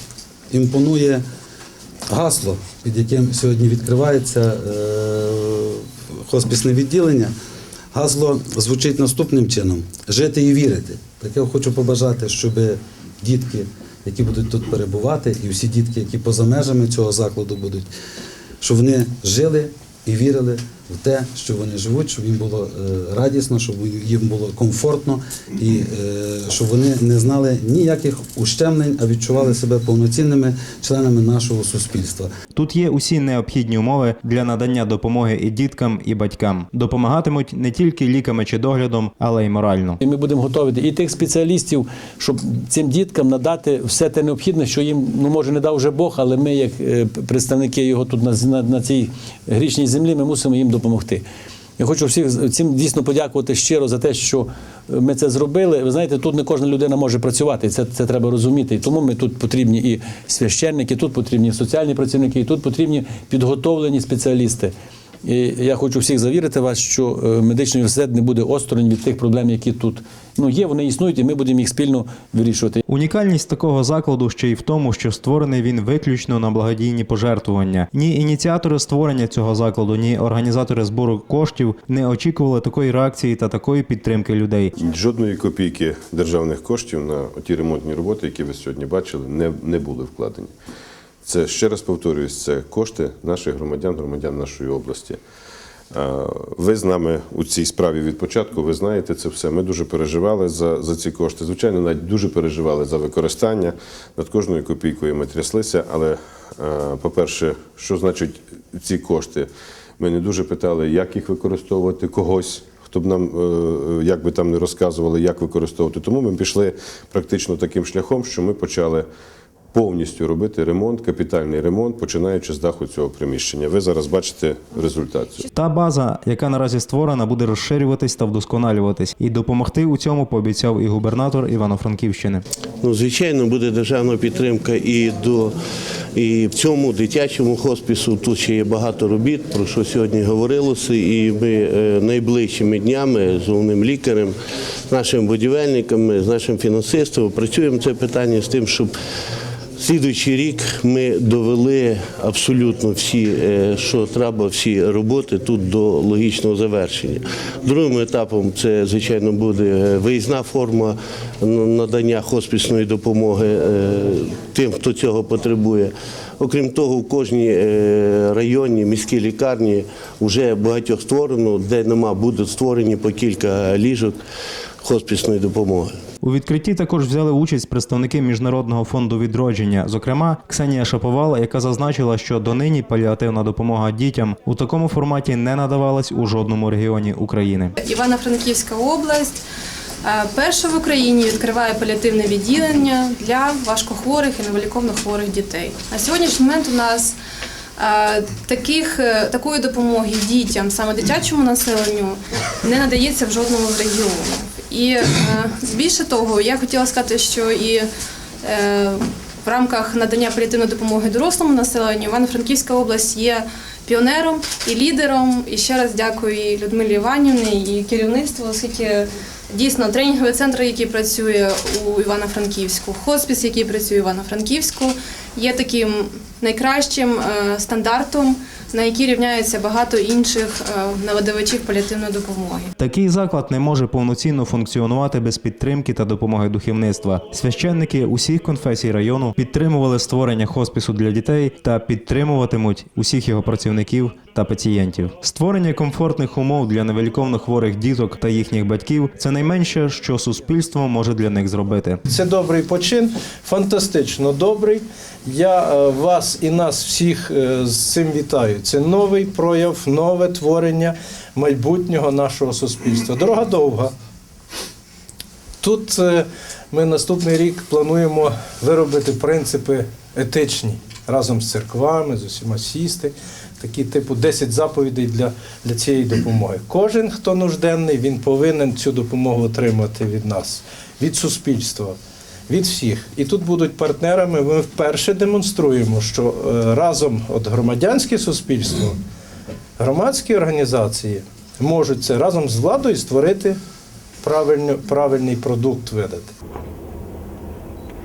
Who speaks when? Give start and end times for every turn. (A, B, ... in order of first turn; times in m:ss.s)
0:00.5-0:01.2 A
0:02.1-0:07.3 A
0:07.9-0:17.9 A
0:18.6-0:32.3 A
0:32.6-0:40.0 B
0:40.0-0:51.2 C
0:51.8-1:12.8 C
1:12.9-1:24.7 B
1:24.8-1:30.5 D
1:31.2-1:35.2 D
1:35.9-1:59.1 D
1:59.7-2:05.4 D
2:05.5-2:12.4 B
2:12.8-2:15.6 E
2:16.2-2:24.3 E
2:24.9-2:28.9 E
2:29.8-2:54.1 E
2:54.8-2:55.9 E
2:56.2-3:07.7 B
3:07.8-3:09.4 F
3:10.0-3:17.2 F
3:17.8-3:27.8 F
3:28.4-3:52.7 F
3:52.8-4:12.0 B
4:12.1-4:23.9 G
4:25.6-4:42.0 G
4:42.5-4:49.0 G
4:49.8-4:53.6 G
4:54.2-4:56.3 G